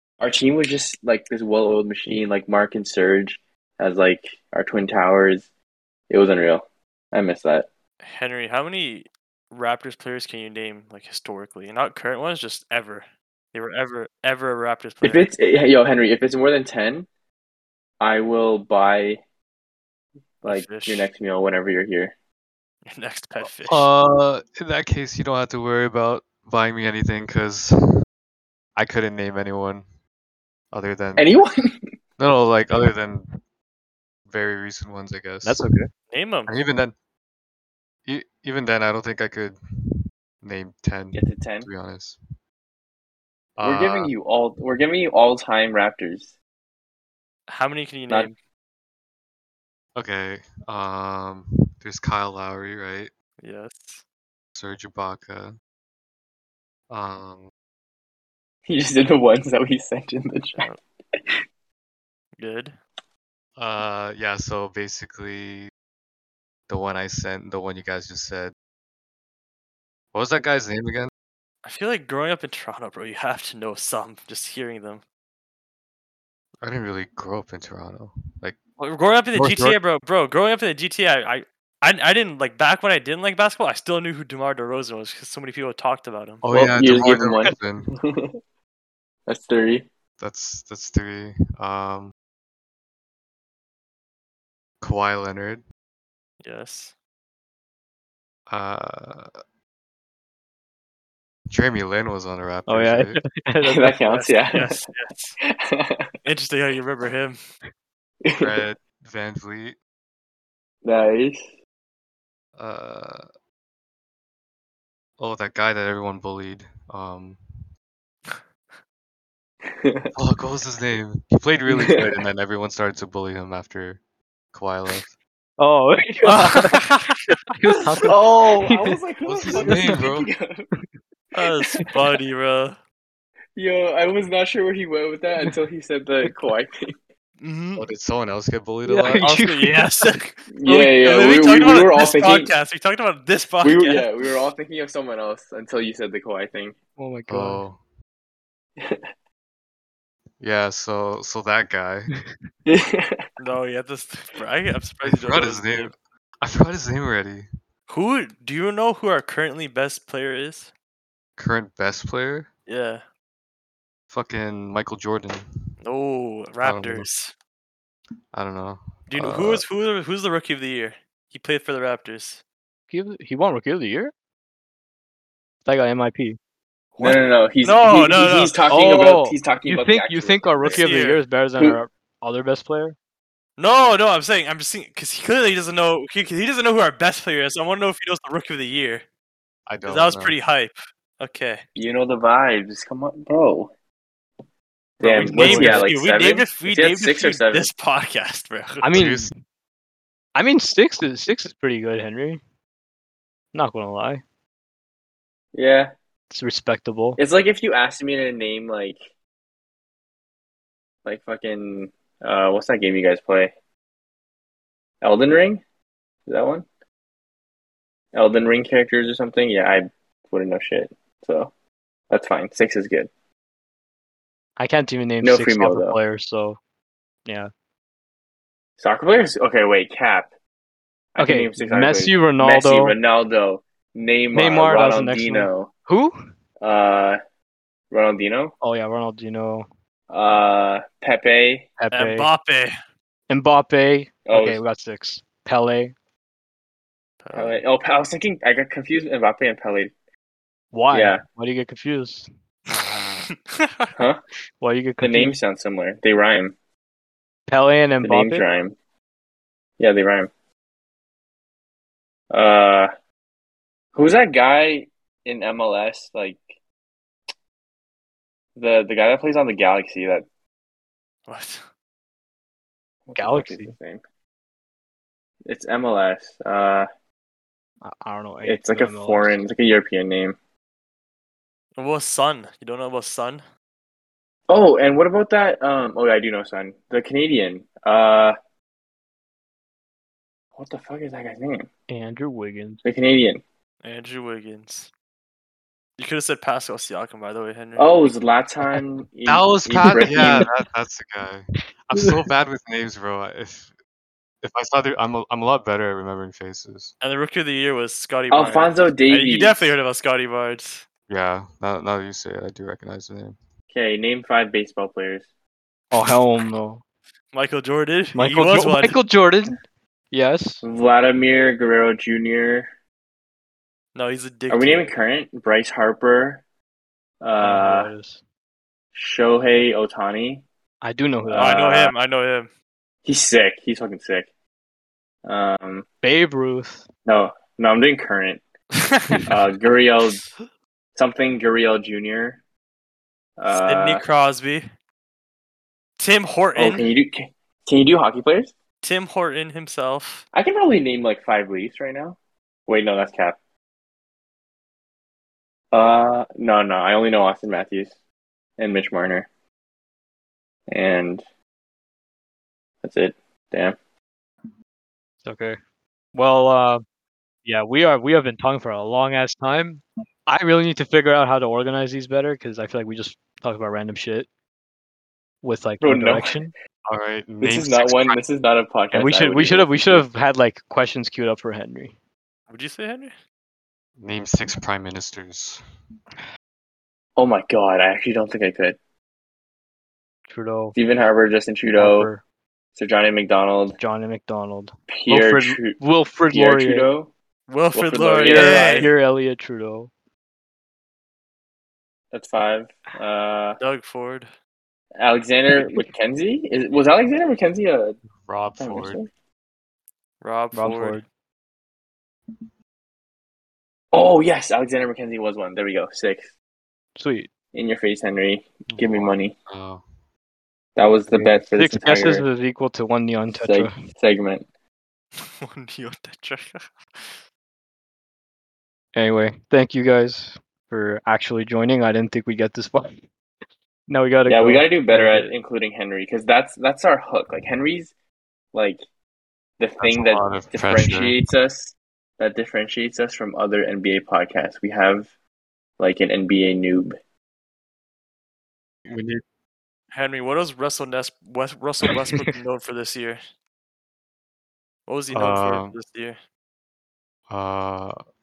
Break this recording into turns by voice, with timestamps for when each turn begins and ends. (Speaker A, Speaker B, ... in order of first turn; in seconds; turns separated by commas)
Speaker A: 0.2-5.5, Speaker A: 6.1-7.7, Speaker B: 8.0-15.3, Speaker A: 15.0-17.1, Speaker A: 18.0-19.2, Speaker A: 20.4-22.1, Speaker B: 20.5-21.1, Speaker B: 22.9-23.9, Speaker C: 23.4-27.7, Speaker C: 28.8-29.9, Speaker C: 30.7-31.3, Speaker A: 31.2-31.8, Speaker C: 32.2-33.4, Speaker C: 34.3-35.6, Speaker D: 35.4-35.9, Speaker B: 36.1-36.5, Speaker C: 36.5-36.9, Speaker C: 38.0-42.2, Speaker A: 41.1-41.7, Speaker C: 43.6-44.1, Speaker A: 43.6-46.3, Speaker B: 47.5-48.4, Speaker C: 49.9-53.1, Speaker B: 53.4-54.0, Speaker C: 54.5-55.6, Speaker C: 56.9-57.5, Speaker A: 58.7-61.2, Speaker B: 62.4-62.8, Speaker C: 63.6-65.7, Speaker C: 66.7-68.5, Speaker C: 70.1-71.1, Speaker B: 71.6-75.0, Speaker C: 76.6-78.6, Speaker B: 78.8-86.4, Speaker C: 79.3-79.8, Speaker C: 86.4-87.9, Speaker A: 86.5-88.4, Speaker A: 89.3-89.9, Speaker C: 90.2-92.1, Speaker C: 94.8-95.6, Speaker B: 96.4-96.9, Speaker C: 98.5-99.3, Speaker C: 101.5-103.2, Speaker D: 102.7-104.2, Speaker A: 103.6-104.9, Speaker B: 104.1-105.4, Speaker A: 105.5-106.1, Speaker B: 106.2-107.4, Speaker A: 108.2-108.6, Speaker C: 108.4-109.8, Speaker A: 110.8-111.5, Speaker C: 112.6-113.3, Speaker C: 115.2-117.7, Speaker A: 119.7-120.1, Speaker C: 120.1-124.0, Speaker A: 121.7-122.2, Speaker C: 124.5-125.1, Speaker D: 125.6-127.0, Speaker B: 126.2-127.2, Speaker D: 127.5-129.0, Speaker A: 128.0-130.7, Speaker C: 129.2-130.3, Speaker D: 129.5-129.9, Speaker B: 131.3-132.8, Speaker A: 131.3-131.9, Speaker A: 133.6-136.9, Speaker B: 137.4-137.8, Speaker C: 137.8-139.2, Speaker D: 138.8-140.1, Speaker B: 139.1-144.1, Speaker A: 140.5-142.5, Speaker A: 143.6-146.8, Speaker D: 147.0-147.6, Speaker C: 147.3-147.8, Speaker C: 150.4-152.1, Speaker A: 152.7-153.2, Speaker B: 153.4-155.9, Speaker C: 155.0-157.5, Speaker B: 157.9-160.7, Speaker C: 161.4-162.5, Speaker B: 162.7-163.0, Speaker C: 164.1-165.7, Speaker B: 165.8-167.3, Speaker C: 166.6-167.1, Speaker C: 168.3-169.6, Speaker B: 169.1-172.4, Speaker D: 172.9-174.1, Speaker D: 175.7-176.4, Speaker D: 177.0-177.2, Speaker A: 177.0-180.9, Speaker B: 177.0-178.6, Speaker D: 178.7-182.9, Speaker B: 180.7-181.2, Speaker B: 183.6-189.0, Speaker C: 189.7-190.3, Speaker B: 189.8-191.6, Speaker A: 191.8-193.7, Speaker A: 195.0-197.7, Speaker B: 195.0-198.9, Speaker D: 195.2-196.3, Speaker D: 198.8-199.3, Speaker C: 198.9-199.3, Speaker D: 200.3-202.4, Speaker D: 203.5-204.2, Speaker A: 205.5-205.9, Speaker D: 206.3-207.2, Speaker A: 207.2-209.0, Speaker A: 211.0-213.5, Speaker A: 215.0-215.6, Speaker A: 216.2-216.6, Speaker A: 218.1-221.5, Speaker A: 222.1-223.1, Speaker D: 224.6-226.6, Speaker A: 225.2-226.0, Speaker D: 227.2-227.5, Speaker A: 228.8-230.3, Speaker A: 231.2-235.7, Speaker D: 231.2-233.0, Speaker D: 234.3-236.1, Speaker A: 236.6-237.2, Speaker A: 237.9-238.5, Speaker D: 238.6-239.7, Speaker A: 240.1-241.7, Speaker D: 241.8-242.3, Speaker B: 241.9-242.8, Speaker D: 243.3-245.9, Speaker A: 244.2-244.6, Speaker B: 247.2-247.6, Speaker A: 247.3-249.9, Speaker D: 250.7-252.3, Speaker A: 250.9-251.2, Speaker B: 252.8-253.9, Speaker D: 254.6-255.4, Speaker A: 255.0-256.5, Speaker D: 257.5-258.5, Speaker A: 258.0-258.7, Speaker A: 259.8-260.3, Speaker A: 262.3-262.9, Speaker A: 263.9-266.5, Speaker A: 268.6-270.2, Speaker B: 271.3-271.6, Speaker A: 273.1-274.0, Speaker D: 273.1-273.7, Speaker A: 275.4-276.9, Speaker D: 277.8-279.4, Speaker A: 278.4-280.4, Speaker B: 281.8-283.4, Speaker A: 284.5-288.3, Speaker A: 290.6-291.7, Speaker D: 291.9-292.8, Speaker A: 292.8-293.4, Speaker B: 293.8-294.9, Speaker B: 296.0-298.1, Speaker A: 297.8-300.4, Speaker C: 299.3-303.7, Speaker D: 300.0-300.5, Speaker C: 304.4-306.9, Speaker B: 307.0-310.8, Speaker A: 308.3-309.7, Speaker C: 311.1-313.4, Speaker A: 313.7-315.3, Speaker D: 315.9-316.8, Speaker B: 317.3-319.0, Speaker D: 318.1-319.6, Speaker D: 320.1-320.6, Speaker A: 320.6-322.7, Speaker B: 323.9-324.9, Speaker A: 324.5-326.4, Speaker A: 327.2-327.9, Speaker D: 327.4-328.2, Speaker A: 328.9-330.4, Speaker D: 330.8-331.9, Speaker A: 331.3-331.9, Speaker B: 331.3-332.5, Speaker A: 333.0-334.3, Speaker A: 335.2-335.9, Speaker D: 336.0-336.8, Speaker A: 337.1-338.4, Speaker B: 338.8-340.3, Speaker A: 339.3-340.2, Speaker A: 340.9-342.4, Speaker A: 343.4-344.0, Speaker B: 343.5-344.6, Speaker B: 346.0-346.9, Speaker A: 346.6-348.5, Speaker B: 348.8-350.2, Speaker A: 350.3-353.4, Speaker A: 355.7-357.9, Speaker A: 358.6-359.3, Speaker A: 360.7-361.2, Speaker A: 362.8-363.7, Speaker D: 365.2-365.6, Speaker D: 366.1-366.8, Speaker D: 367.4-374.3, Speaker D: 375.4-376.5, Speaker A: 375.8-376.4, Speaker C: 376.9-378.2, Speaker A: 377.4-380.0, Speaker D: 378.9-381.9, Speaker B: 382.5-383.1, Speaker C: 384.0-385.6, Speaker A: 387.2-388.8, Speaker D: 390.3-390.7, Speaker A: 390.7-392.1, Speaker D: 391.8-392.2, Speaker A: 392.8-393.8, Speaker D: 393.8-396.9, Speaker A: 394.9-395.8, Speaker A: 396.3-397.1, Speaker B: 397.5-398.9, Speaker A: 397.7-398.9, Speaker D: 398.3-399.9, Speaker A: 402.1-403.6, Speaker B: 403.6-404.3, Speaker A: 405.0-408.0, Speaker C: 408.2-409.0, Speaker A: 408.6-409.1, Speaker B: 410.2-411.0, Speaker D: 410.5-411.0, Speaker A: 413.9-416.3, Speaker D: 416.9-417.3, Speaker A: 417.5-419.3, Speaker C: 418.7-419.8, Speaker A: 420.8-422.2, Speaker D: 421.1-423.7, Speaker A: 423.3-424.4, Speaker B: 425.2-427.2, Speaker D: 428.9-433.0, Speaker D: 433.9-435.3, Speaker A: 434.2-437.9, Speaker A: 438.5-438.8, Speaker A: 439.6-445.1, Speaker C: 439.8-441.2, Speaker A: 445.8-446.9, Speaker C: 448.9-449.2, Speaker B: 449.9-453.2, Speaker B: 454.9-456.2, Speaker C: 455.1-455.7, Speaker C: 457.3-458.0